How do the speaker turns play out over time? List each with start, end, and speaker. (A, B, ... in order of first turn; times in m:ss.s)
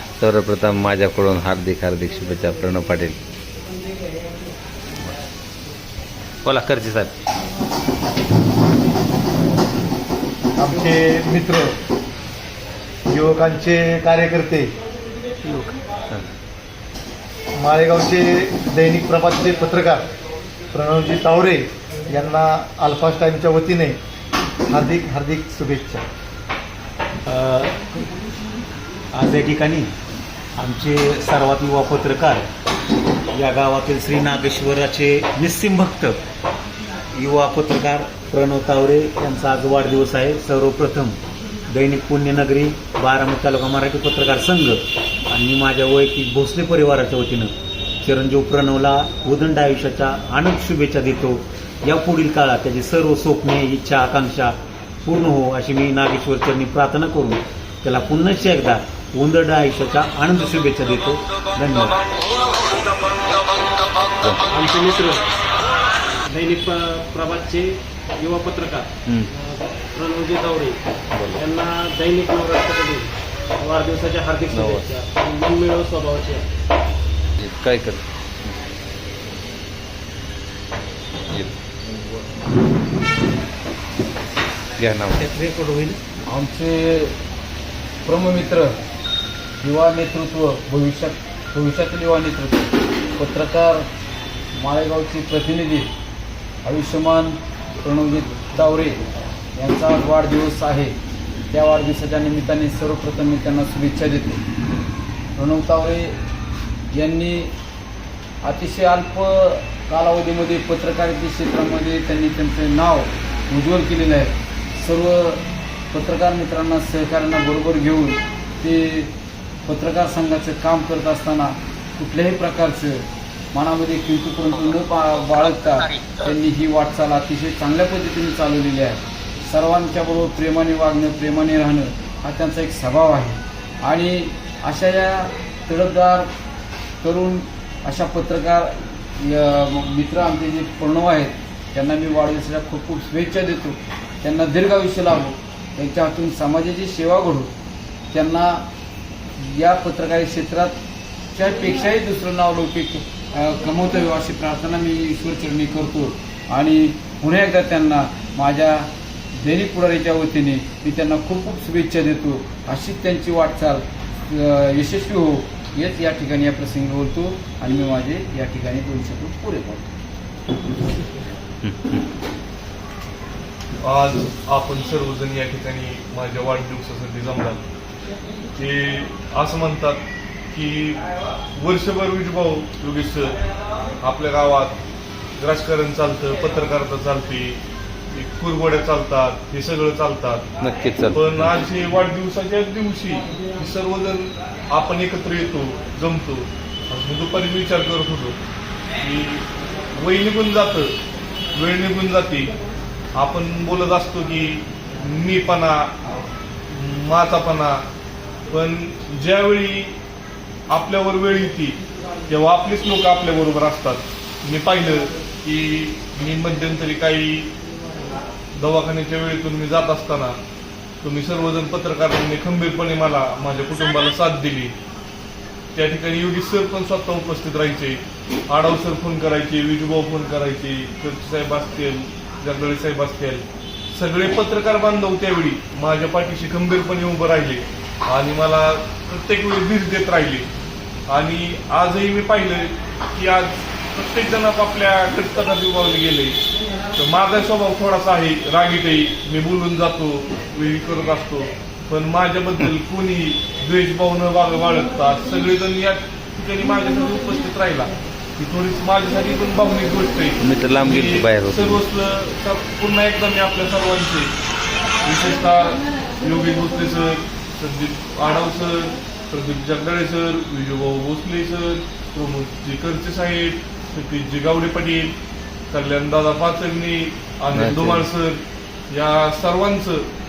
0:00.2-0:03.2 A
0:06.4-0:07.1 A
0:10.6-0:11.7 B
0:13.1-0:14.7 B
0:15.4-0:16.2 A
0:17.6-0:20.0 B
0:20.7-0:24.0 B
0:24.7-0:26.0 B
0:27.3-0:28.0 C
0:29.1-0:29.9 C
0:30.6-0:32.5 C
0:33.3-0:36.2 C
0:37.1-0:41.2 C
0:41.7-1:02.0 C
1:04.5-1:05.4 D
1:06.2-1:10.8 D
1:11.1-1:11.4 A
1:11.3-1:16.5 D
1:14.5-1:14.9 A
1:17.4-1:18.5 A
1:24.8-1:25.2 A
1:26.3-1:27.2 E
1:28.0-1:28.8 E
1:29.6-1:33.9 E
1:34.5-1:35.9 E
1:36.6-1:39.0 E
1:39.6-1:41.0 E
1:41.5-1:44.4 E
1:45.3-1:46.2 E
1:46.9-1:47.5 E
1:48.4-1:59.1 E
1:59.7-2:16.3 E
2:17.0-2:27.5 E
2:28.1-2:28.7 E
2:29.4-2:30.8 E
2:31.3-2:49.9 E
2:51.6-2:52.0 A
2:53.8-2:57.6 F
2:58.6-3:01.0 F
3:01.6-3:03.4 F
3:04.0-3:04.8 F
3:05.4-3:07.6 F
3:08.1-3:10.5 F
3:10.6-3:11.5 A
3:11.1-3:18.4 F
3:19.0-3:20.9 F
3:21.6-3:22.5 F
3:23.2-3:26.0 F
3:26.7-3:27.8 F
3:28.5-3:30.0 F
3:30.7-3:37.5 F
3:38.6-3:40.4 F
3:41.0-3:44.8 F
3:45.7-4:00.5 F
4:01.1-4:06.4 F
4:06.9-4:24.3 F
4:20.4-4:21.8 A
4:25.0-4:35.1 F
4:35.7-4:40.1 F
4:37.5-4:38.0 A